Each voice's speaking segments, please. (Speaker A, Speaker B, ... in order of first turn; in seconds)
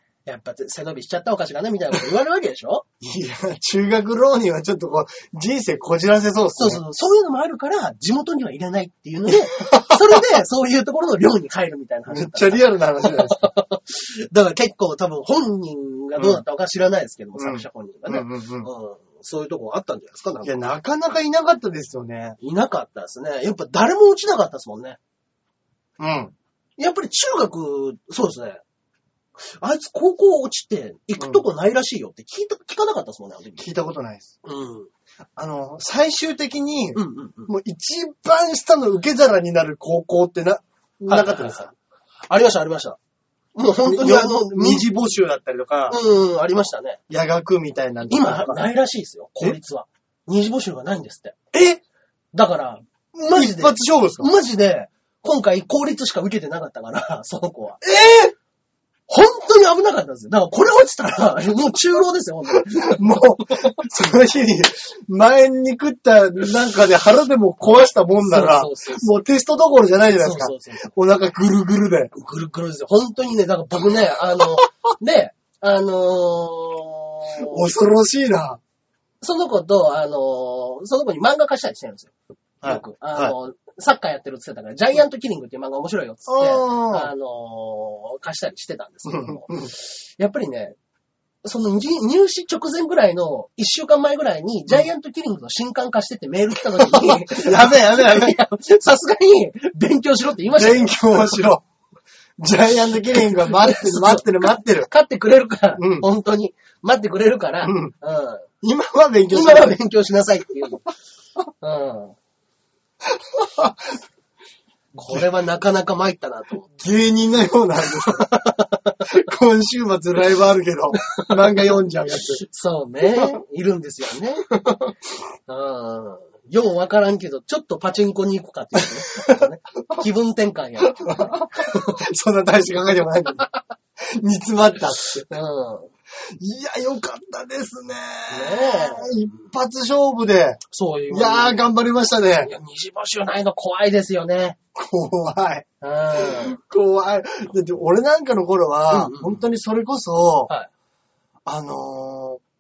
Speaker A: 0.2-2.9, 6.5-20.6, 22.4-25.0, 26.8-28.6, 29.4-33.7, 34.4-34.9, 36.9-37.5, 41.1-41.7, 42.3-43.0, 43.5-44.9, 45.9-47.0, 48.1-51.4, 52.3-57.8, 59.1-63.8, 68.2-69.1, 70.2-70.9, 72.1-77.7, 79.2-82.1, 82.6-90.8, 91.4-101.5, 103.1-108.5, 109.3-110.9, 111.6-112.2, 114.9-116.7, 118.0-119.1, 121.0-121.8, 122.3-124.5, 125.5-132.0, 135.2-135.9, 138.3-139.5, 140.7-141.7, 142.4-144.6, 145.8-146.6, 148.9-149.4
Speaker B: 3.0-6.8, 9.5-10.3, 12.1-13.4, 16.1-16.4, 17.4-18.7, 20.4-22.4, 26.0-26.3, 33.6-34.3, 35.4-41.7, 43.8-46.0, 47.1-48.6, 51.5-51.8, 53.3-54.3, 57.8-58.3, 62.8-72.1, 77.4-78.6, 82.6-83.3, 86.3-87.1, 89.1-89.7, 96.7-98.4, 100.5-101.6, 102.4-104.9, 105.8-106.0, 107.6-107.9, 108.6-109.8, 113.1-114.0, 116.8-118.2, 119.0-122.4, 123.0-123.3, 124.5-124.9, 128.8-130.0, 130.8-133.5, 134.0-135.2, 136.2-142.5, 144.7-150.5, 151.4-152.4